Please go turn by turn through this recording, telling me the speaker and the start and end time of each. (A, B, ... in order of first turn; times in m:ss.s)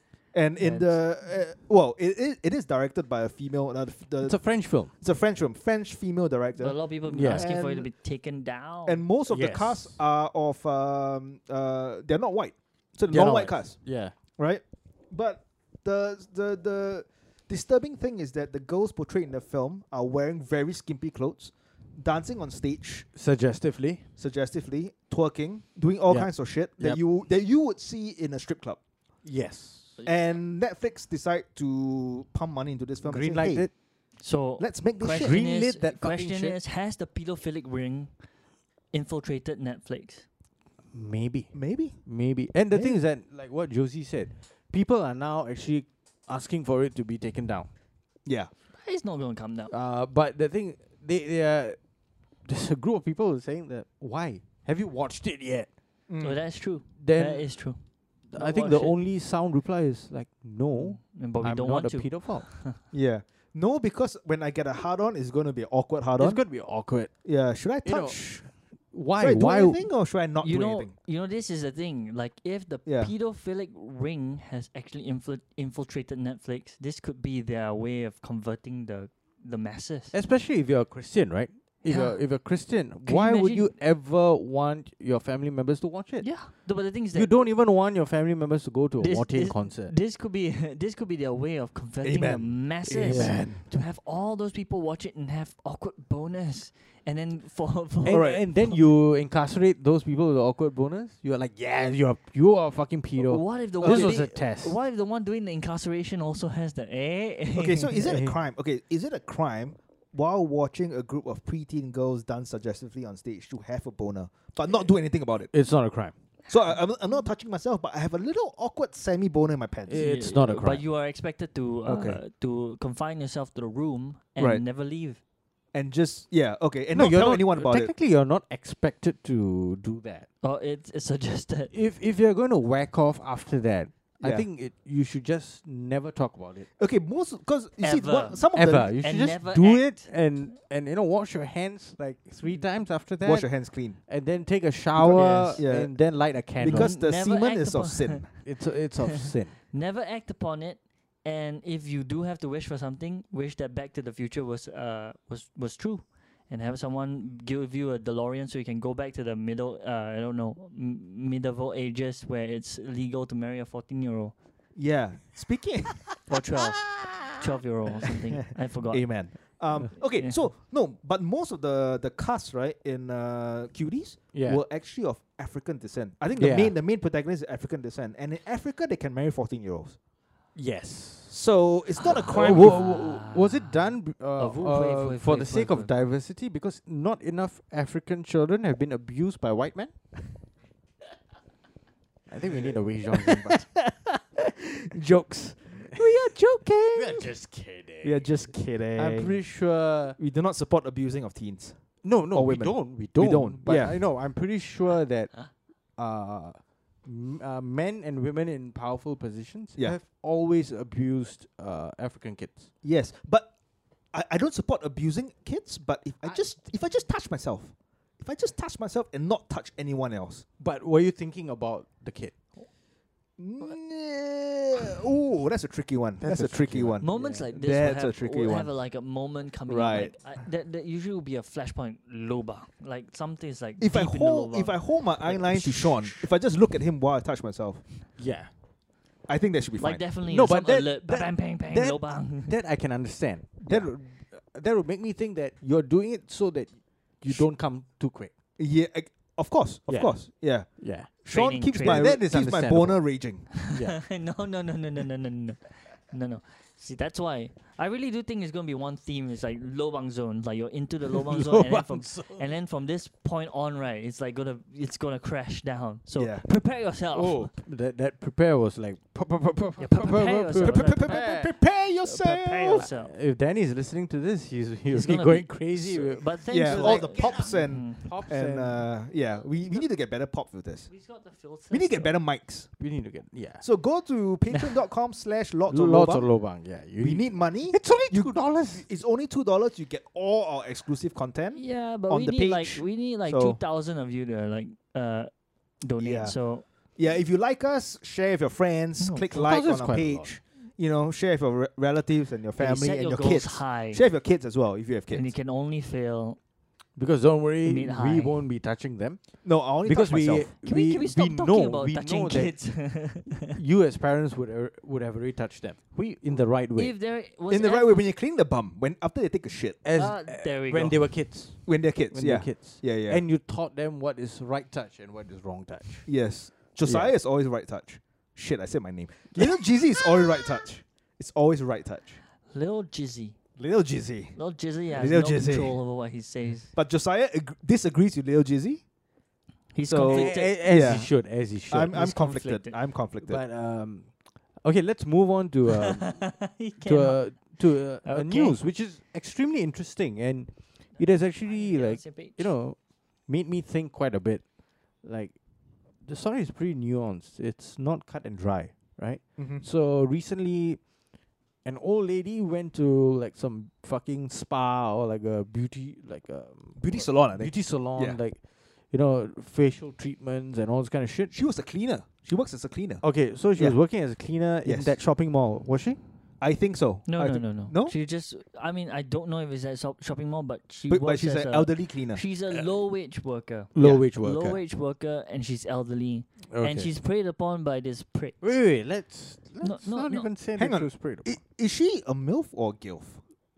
0:00.3-0:07.9 A
0:00.6-0:01.2 B
0:04.2-0:04.9 C
0:06.6-0:09.0 B
0:07.0-0:07.5 C
0:08.8-0:23.1 A
0:09.3-0:10.0 C
0:13.1-0:14.1 C
0:23.1-0:24.0 C
0:24.2-0:28.8 A
0:26.1-0:27.0 C
0:29.2-0:30.0 C
0:30.0-0:33.7 A
0:33.0-0:33.7 C
0:34.2-0:38.2 B
0:34.6-0:35.4 A
0:35.1-0:36.6 C
0:38.9-0:40.2 B
0:40.9-0:47.7 C
0:41.5-0:42.1 A
0:42.7-0:43.0 A
0:48.2-0:48.5 A
0:48.7-0:49.7 B
0:49.7-0:51.8 C
0:52.4-0:55.7 C
0:56.1-0:56.4 A
0:56.2-0:59.0 B
0:57.0-0:57.7 C
0:58.2-1:02.5 C
1:00.7-1:02.8 B
1:02.9-1:06.4 A
1:06.2-1:07.1 C
1:07.2-1:08.5 A
1:07.8-1:09.9 C
1:09.2-1:10.9 A
1:10.4-1:20.1 B
1:12.8-1:13.1 A
1:20.1-1:29.9 C
1:21.8-1:23.7 B
1:26.2-1:27.4 B
1:29.0-1:38.8 B
1:32.0-1:33.6 A
1:33.0-1:33.6 C
1:38.0-1:44.8 C
1:38.1-1:38.4 A
1:43.2-1:48.0 B
1:43.8-1:44.2 A
1:47.5-1:55.5 A
1:48.0-1:48.3 C
1:55.5-1:56.1 C
1:56.5-2:00.0 A
1:59.9-2:00.8 C
1:59.9-2:05.2 B
2:01.8-2:02.2 A
2:04.4-2:04.6 A
2:05.7-2:07.9 A
2:06.9-2:10.3 C
2:10.4-2:11.7 B
2:11.7-2:16.7 C
2:14.2-2:14.4 A
2:16.8-2:18.9 A
2:17.8-2:20.1 B
2:18.5-2:26.9 C
2:23.2-2:24.0 A
2:24.9-2:28.3 A
2:25.1-2:25.6 B
2:26.6-2:28.4 B
2:28.4-2:29.6 C
2:29.7-2:44.3 B
2:44.8-2:46.2 A
2:46.2-2:50.4 B
2:48.4-3:00.0 A
2:54.3-2:54.6 C
2:56.4-2:56.7 C
3:00.5-3:01.4 C
3:01.3-3:02.9 A
3:02.0-3:05.9 B
3:02.3-3:09.9 C
3:12.3-3:13.6 C
3:12.4-3:17.3 A
3:16.9-3:20.2 C
3:18.0-3:19.4 A
3:20.2-3:24.0 A
3:22.0-3:32.7 C
3:32.8-3:33.5 A
3:34.1-3:40.4 A
3:40.6-3:42.3 C
3:43.4-3:48.7 A
3:46.2-3:47.5 C
3:47.0-3:56.3 B
3:49.7-3:50.3 A
3:53.8-3:57.8 A
3:58.2-3:58.5 C
3:59.3-4:00.0 A
3:59.8-4:02.5 B
4:00.2-4:08.3 C
4:03.6-4:03.9 A
4:08.6-4:13.6 A
4:09.9-4:11.1 C
4:11.2-4:12.1 B
4:11.7-4:13.1 C
4:13.6-4:27.5 B
4:13.6-4:14.0 C
4:21.1-4:22.4 C
4:26.1-4:26.4 A
4:27.1-4:31.5 C
4:29.8-4:33.1 B
4:30.6-4:32.9 A
4:32.7-4:38.8 C
4:34.9-4:38.1 B
4:36.5-4:40.9 A
4:40.9-4:42.1 B
4:41.7-4:42.8 A
4:42.8-4:43.6 C
4:43.6-4:46.4 A
4:45.7-4:48.9 C
4:47.0-4:53.6 A
4:51.6-4:56.6 B
4:56.0-5:05.3 A
4:59.0-4:59.4 B
4:59.3-5:00.3 C
5:02.6-5:04.0 B
5:05.1-5:06.4 B
5:07.0-5:12.6 C
5:07.6-5:08.4 B
5:09.4-5:10.5 A
5:10.6-5:13.6 B
5:13.4-5:16.9 C
5:16.7-5:18.0 B
5:17.5-5:19.8 A
5:19.8-5:26.1 C
5:19.9-5:21.0 B
5:21.6-5:23.2 A
5:26.0-5:32.2 A
5:26.8-5:27.1 C
5:29.3-5:29.6 C
5:32.5-5:33.4 B
5:33.6-5:34.4 A
5:34.4-5:36.7 B
5:34.9-5:35.8 A
5:36.7-5:38.8 A
5:39.7-5:41.0 B
5:39.8-5:43.4 A
5:40.0-5:42.1 C
5:41.9-5:42.8 B
5:43.2-5:55.4 C
5:46.0-5:48.6 B
5:51.0-5:52.5 B
5:56.0-6:00.9 C
5:59.4-5:59.6 A
6:01.6-6:11.3 C
6:06.8-6:08.2 A
6:11.3-6:13.8 A
6:13.0-6:16.0 C
6:14.6-6:15.0 A
6:16.4-6:17.9 A
6:17.0-6:28.6 B
6:20.9-6:22.6 A
6:23.7-6:24.6 C
6:23.8-6:24.1 A
6:26.5-6:26.9 C
6:28.4-6:31.4 C
6:29.6-6:30.3 B
6:30.6-6:33.2 A